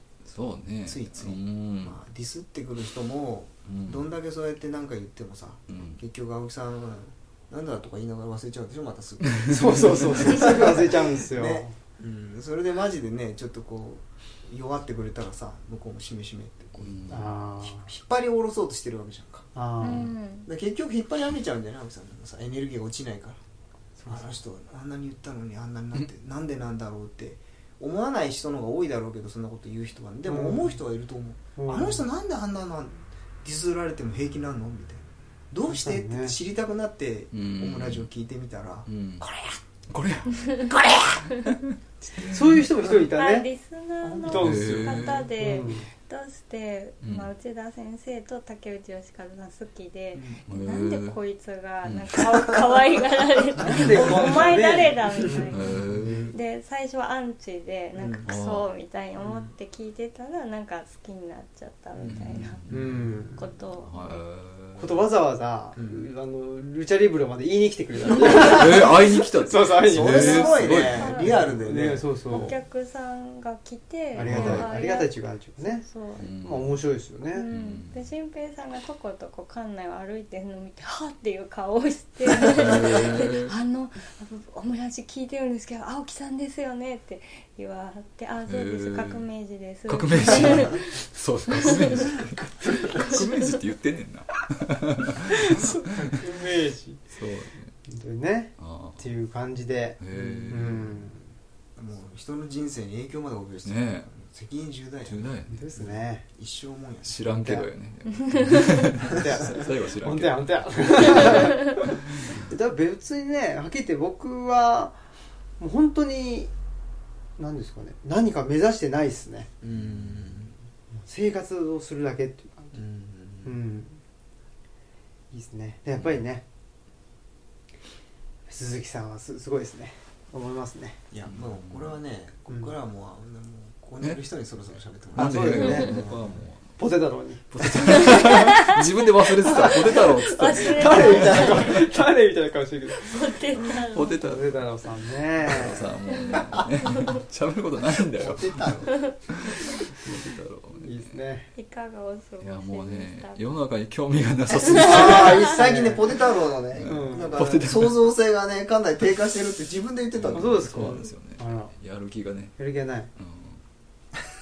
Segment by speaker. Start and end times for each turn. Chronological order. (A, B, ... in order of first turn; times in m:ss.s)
0:00.2-0:02.0 A
0:00.8-0:19.5 B
0:03.7-0:04.0 A
0:05.7-0:06.0 A
0:09.3-0:10.4 A
0:09.5-0:11.7 C
0:16.8-0:17.3 A
0:17.1-0:17.9 C
0:19.5-0:20.1 C
0:19.8-0:20.5 D
0:20.4-0:23.4 B
0:24.0-0:24.3 C
0:24.0-0:39.6 B
0:30.2-0:30.8 C
0:31.6-0:32.0 C
0:35.7-0:36.4 C
0:37.3-0:38.1 A
0:38.9-0:39.2 A
0:39.9-0:42.6 A
0:40.4-0:40.7 D
0:42.2-0:43.5 C
0:42.8-1:02.6 D
0:44.0-0:45.2 B
0:44.3-0:45.3 A
0:44.3-0:45.9 C
0:50.1-0:50.4 B
0:50.5-0:51.2 A
0:51.8-0:52.3 A
0:53.6-0:55.5 C
0:53.6-0:53.9 A
0:53.6-0:54.2 B
0:55.2-0:56.3 B
0:55.5-0:56.3 A
0:57.9-0:58.3 B
0:58.2-0:58.7 A
0:59.2-0:59.5 B
1:02.0-1:02.6 B
1:02.0-1:03.1 A
1:02.7-1:03.4 C
1:03.3-1:04.2 D
1:03.8-1:05.0 A
1:04.8-1:12.5 C
1:05.7-1:06.1 B
1:08.1-1:11.3 A
1:08.2-1:08.9 B
1:09.8-1:12.5 B
1:10.3-1:11.4 D
1:12.3-1:16.3 D
1:14.1-1:15.8 C
1:14.2-1:14.7 A
1:16.2-1:16.8 A
1:16.4-1:17.5 C
1:17.3-1:32.1 D
1:17.5-1:18.0 A
1:22.4-1:23.5 A
1:28.5-1:29.2 A
1:29.9-1:36.2 A
1:32.1-1:33.2 B
1:32.9-1:33.4 D
1:35.4-1:37.0 C
1:37.1-1:37.7 A
1:37.9-1:41.2 C
1:38.6-1:39.0 A
1:40.0-1:41.1 A
1:40.1-1:40.8 B
1:41.8-1:45.2 B
1:43.6-1:44.1 A
1:45.0-1:46.0 A
1:45.5-1:46.2 C
1:46.3-1:47.3 B
1:47.1-1:52.4 A
1:47.3-1:47.7 C
1:48.3-1:48.7 D
1:49.0-1:49.6 B
1:49.0-1:55.0 C
1:55.6-1:56.5 C
1:57.4-1:59.5 C
1:59.6-2:00.5 B
2:01.0-2:02.7 C
2:02.7-2:03.6 B
2:03.4-2:04.0 C
2:05.3-2:06.4 C
2:08.5-2:11.0 C
2:11.1-2:16.4 B
2:11.3-2:11.9 A
2:15.1-2:16.7 A
2:15.2-2:16.1 C
2:16.8-2:18.7 C
2:17.5-2:21.8 A
2:18.1-2:18.6 D
2:19.4-2:23.4 C
2:19.5-2:21.8 D
2:21.0-2:21.7 B
2:23.0-2:24.3 D
2:23.9-2:24.6 A
2:24.1-2:25.9 C
2:25.4-2:31.2 A
2:26.1-2:27.0 D
2:28.1-2:29.6 B
2:29.0-2:29.4 D
2:30.7-2:31.5 C
2:31.6-2:33.4 D
2:32.4-2:35.4 A
2:34.5-2:35.4 D
2:34.6-2:41.1 B
2:34.8-2:36.1 C
2:36.7-2:38.1 A
2:36.8-2:37.6 C
2:40.2-2:42.6 A
2:40.3-2:41.7 C
2:42.6-2:43.1 C
2:43.2-2:43.6 A